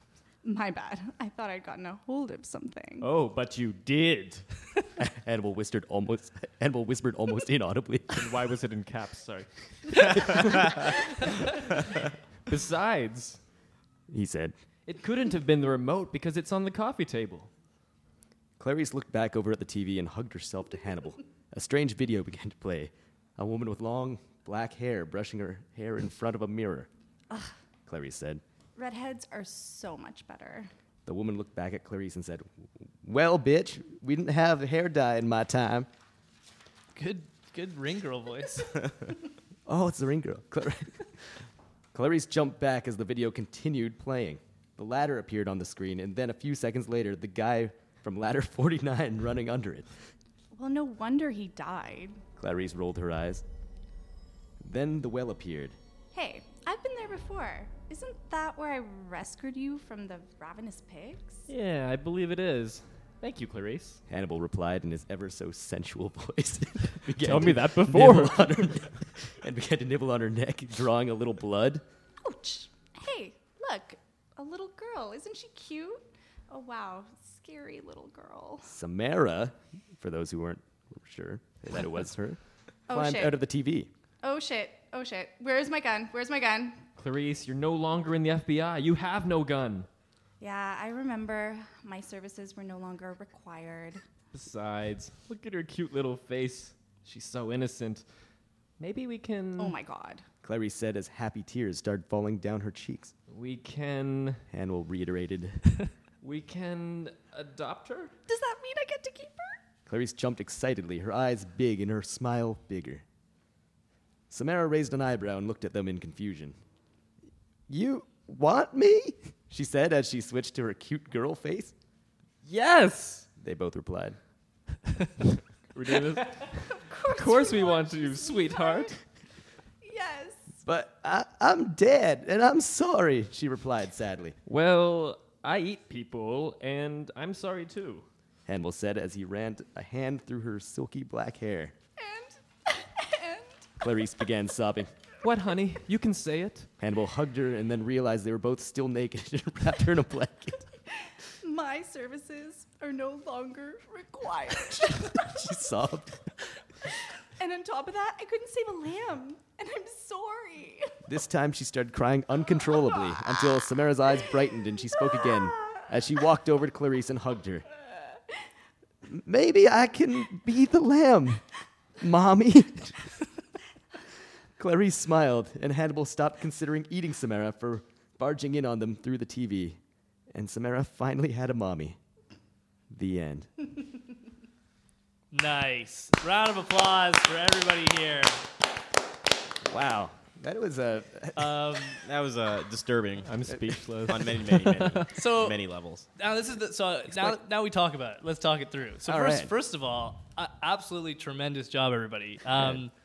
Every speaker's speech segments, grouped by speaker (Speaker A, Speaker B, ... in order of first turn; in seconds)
Speaker A: 0.4-3.1, 28.8-30.7, 50.5-52.2, 56.1-61.5, 72.2-78.7, 82.9-83.4, 84.2-86.8, 90.4-94.0, 99.6-100.2, 108.3-109.6, 126.7-129.0, 129.8-130.4, 142.0-143.6, 151.4-155.4, 157.4-161.0
Speaker B: 3.0-4.5, 8.1-11.6, 12.5-13.4, 14.8-17.5, 61.5-64.0, 67.2-68.9, 87.0-89.9, 94.3-98.0, 98.8-99.8, 103.3-104.4, 106.2-108.1, 122.5-123.3, 125.7-128.9, 134.4-138.1, 145.2-146.7, 193.2-195.1
Speaker C: 5.0-8.3, 14.1-14.5, 18.6-26.9, 27.9-28.4, 31.1-32.5, 33.0-35.9, 39.6-41.1, 41.9-49.9, 52.4-53.4, 54.6-55.8, 64.1-71.8, 78.7-82.4, 82.9-83.9, 100.4-103.1, 104.5-105.7, 109.9-113.0, 114.3-116.5, 117.7-121.7, 123.4-124.2, 130.6-134.4, 138.4-141.7, 143.8-144.9, 146.8-150.6, 155.2-156.2, 161.1-167.7, 169.1-171.4, 172.0-173.1, 174.6-179.8, 180.3-182.0, 182.9-183.5, 189.6-191.6, 199.0-199.5
Speaker D: 37.0-38.8, 185.3-188.4, 191.3-192.0, 195.1-195.6, 196.2-202.9
Speaker E: 192.0-193.3, 194.1-196.1